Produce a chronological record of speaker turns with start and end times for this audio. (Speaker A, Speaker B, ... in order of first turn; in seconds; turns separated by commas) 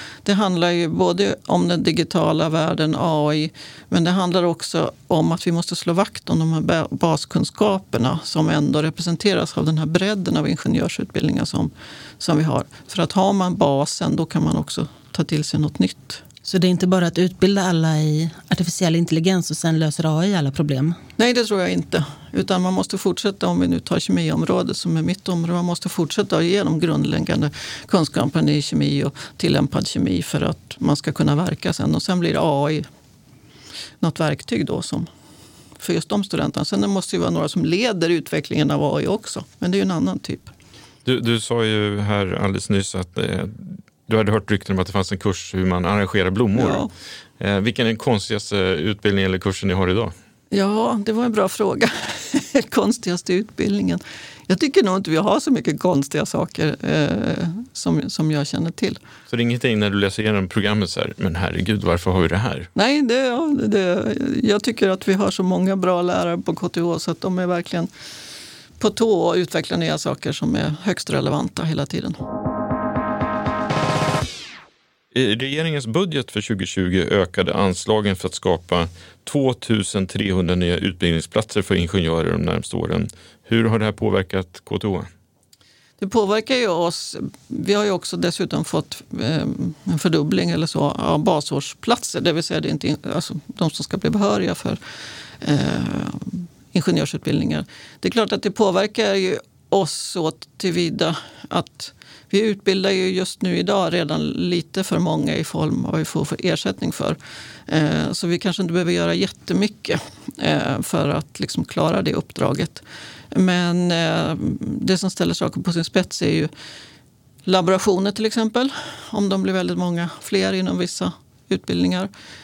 Speaker A: 0.2-16.2, Speaker B: 16.4-21.0, Speaker A: 21.2-32.9, Speaker A: 34.0-35.1, Speaker A: 35.8-40.5, Speaker C: 41.0-46.9, Speaker A: 46.6-46.9, Speaker C: 47.4-50.1, Speaker A: 50.5-59.0, Speaker C: 59.3-62.7, Speaker A: 62.8-67.9, Speaker A: 68.8-72.2, Speaker C: 75.1-85.1, Speaker A: 86.0-94.8, Speaker A: 95.4-116.5, Speaker A: 117.5-122.1